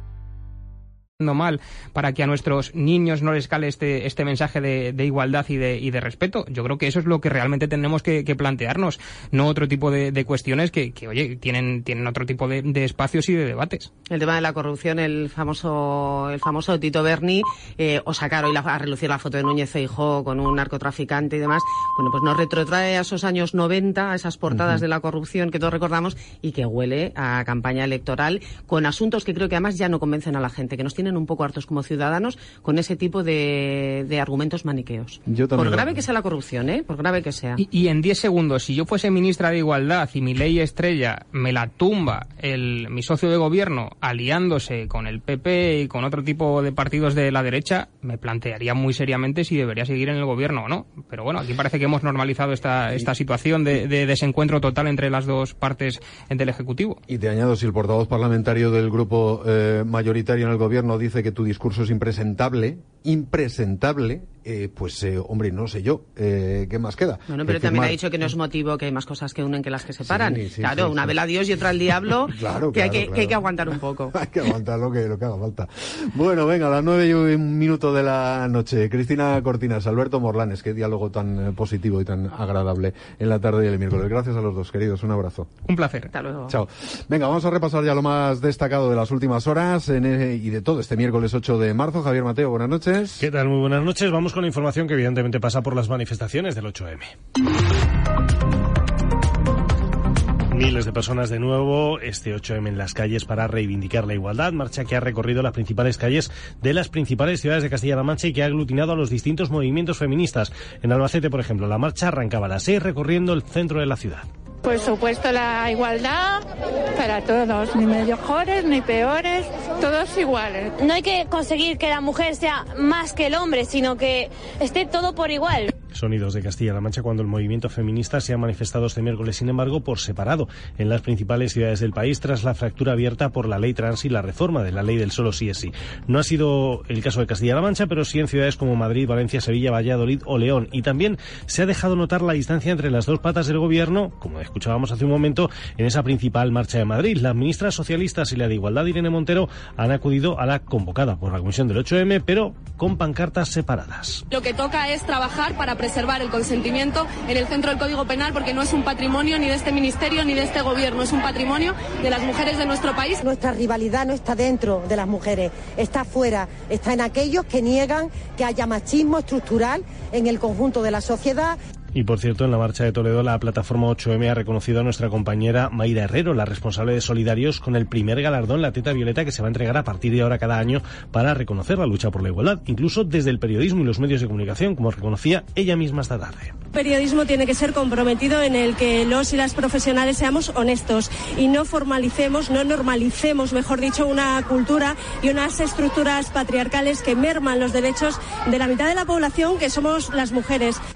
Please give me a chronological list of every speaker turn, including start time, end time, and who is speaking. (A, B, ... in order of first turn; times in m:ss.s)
0:01.2-0:13.9 A
0:14.1-0:37.6 B
0:35.3-0:36.0 C
0:37.6-0:57.0 A
0:57.1-1:08.0 C
1:07.3-1:14.2 B
1:10.0-1:11.2 C
1:12.1-1:25.5 C
1:25.7-1:26.1 A
1:26.1-1:26.6 B
1:26.5-1:33.2 C
1:33.2-1:37.1 D
1:40.5-1:54.3 D
1:54.6-1:56.4 E
1:57.0-2:00.7 E
2:00.8-2:05.7 F
2:05.9-2:34.2 D
2:34.3-2:43.2 G
2:43.2-2:51.6 H
2:51.9-3:06.6 D
3:06.7-3:20.8 I